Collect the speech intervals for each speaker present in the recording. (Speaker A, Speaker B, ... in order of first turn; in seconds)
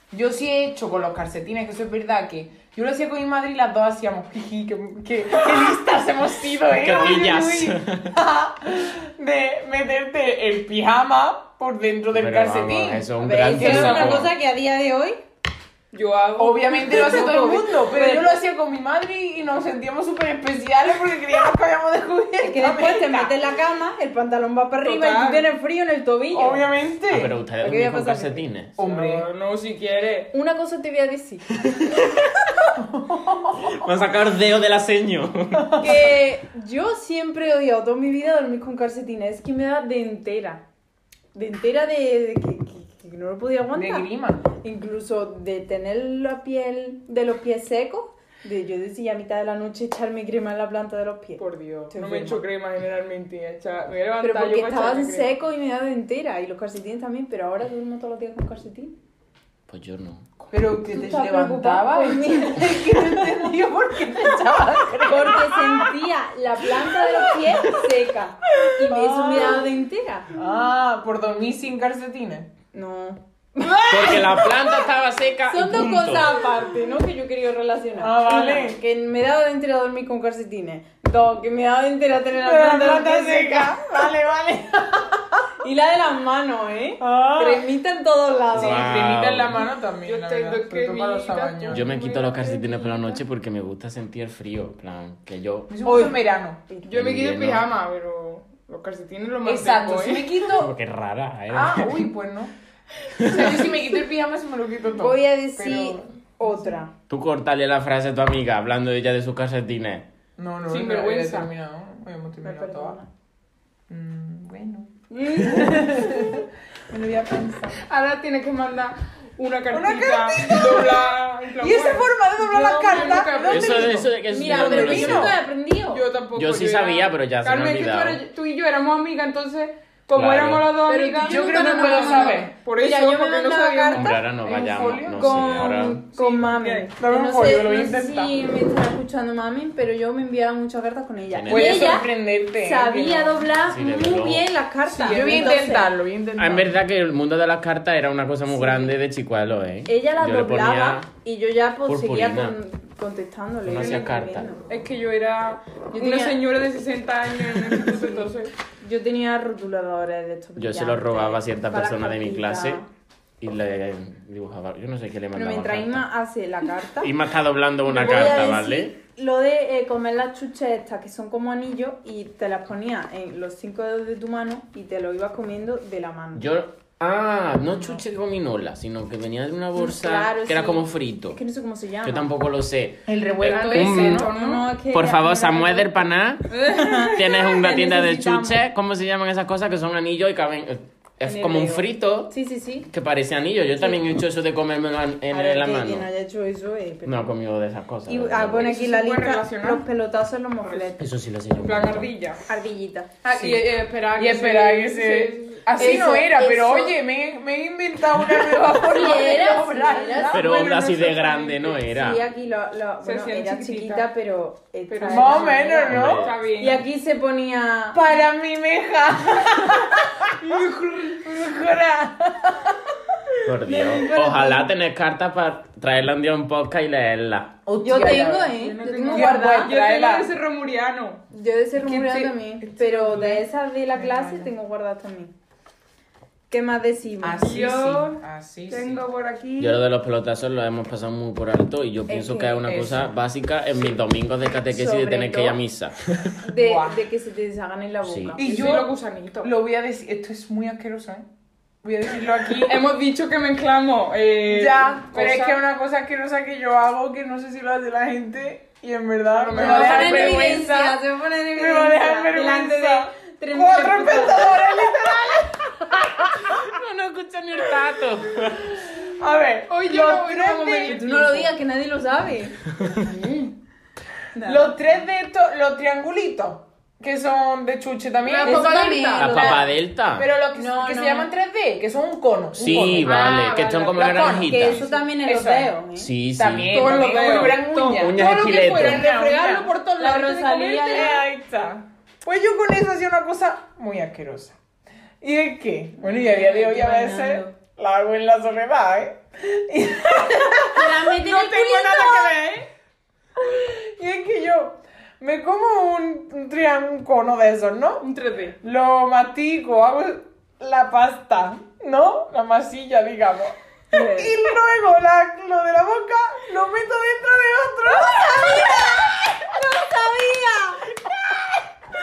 Speaker A: 0.1-14.3, 16.4-23.4, 26.3-27.4, 28.8-29.3, 32.7-33.8, 35.5-36.0, 43.7-44.4, 60.5-66.0, 66.8-67.8, 68.8-69.7, 70.3-72.5, 73.7-74.5, 78.0-78.8, 82.4-85.4, 87.0-87.7, 88.5-91.9, 95.7-96.6, 99.5-100.7, 101.5-102.5, 103.2-106.8, 110.4-113.0, 113.9-117.8, 119.7-125.3, 131.2-132.5, 134.4-135.8, 137.0-138.3, 141.5-143.5, 145.0-146.7, 183.1-184.3, 203.2-210.6, 215.1-216.2, 217.9-220.5, 221.2-222.9, 227.7-230.3, 233.1-233.3, 233.9-234.5, 237.2-239.0, 242.7-243.1, 246.5-247.0, 248.4-251.3, 251.8-252.8, 254.5-261.0, 261.6-266.6, 268.6-271.0, 274.4-279.6, 280.1-285.7, 286.4-289.7, 290.9-294.6, 295.2-302.6, 303.4-308.0, 308.6-319.4, 321.1-321.4
Speaker B: 6.7-8.1, 12.1-14.3, 27.1-28.8, 31.7-32.0, 33.6-35.7, 59.7-60.2, 73.9-76.4, 88.5-89.6, 91.7-96.1, 96.9-97.7, 100.5-102.1, 103.2-103.6, 107.1-110.1, 123.5-125.3, 126.3-128.2, 130.1-130.8, 133.9-136.0, 141.3-142.0, 143.7-144.5, 146.4-151.1, 151.9-152.6, 153.7-154.5, 160.6-162.8, 163.4-166.1, 167.0-168.9, 176.3-181.4, 182.0-184.3, 184.9-192.3, 192.9-196.1, 197.1-198.8, 201.0-202.1, 210.3-212.2, 215.9-216.4, 223.4-227.6, 239.6-246.3, 248.0-248.4, 266.4-268.7, 279.2-280.3, 282.6-284.9, 286.0-289.1
Speaker C: 13.2-15.2, 16.8-18.3, 22.4-26.7, 27.6-28.5, 30.3-31.5, 35.8-40.6, 41.3-52.4, 54.2-58.9, 60.8-63.3, 65.0-70.3, 72.7-74.6, 75.5-83.9, 85.6-89.0, 96.7-97.0, 105.0-106.9, 112.4-113.1, 115.1-116.4, 122.4-126.0, 130.9-134.2, 135.1-145.9, 148.5-148.9, 149.9-154.6, 155.9-156.4, 157.7-162.9, 165.3-167.1, 167.8-176.5, 179.8-182.3, 183.9-188.6, 191.2-192.9, 193.8-194.0, 195.3-197.3, 198.1-201.0, 202.5-203.1, 205.8-207.0, 208.8-210.5, 211.8-216.0, 216.5-218.0, 223.7-224.7, 227.8-229.8, 231.3-235.3, 236.5-237.6, 242.1-242.7, 244.7-245.6, 246.4-248.7, 259.5-264.9, 270.8-272.6, 274.3-274.7, 278.3-279.7, 280.5-281.3, 284.2-286.1, 290.0-291.2, 296.0-297.6, 300.7-302.4, 313.9-314.4, 318.1-320.9
Speaker D: 15.9-17.6, 24.8-25.5, 28.8-30.3, 51.4-55.3, 90.0-93.2, 96.8-100.3, 110.7-111.5, 117.8-124.0, 125.9-134.1, 136.1-136.9, 144.9-145.6, 153.8-154.1, 154.7-158.5, 183.4-184.7, 186.5-187.2, 198.6-199.9, 200.7-200.9, 201.6-202.4, 203.2-206.2, 210.4-211.8, 213.0-214.1, 214.9-216.8, 220.4-221.2, 223.8-224.1, 228.6-231.2, 231.8-233.4, 237.4-239.8, 248.4-249.5, 252.6-255.6, 259.3-260.7, 269.7-271.5, 278.3-279.4, 283.0-284.2, 286.7-291.2, 301.5-302.6, 308.0-308.6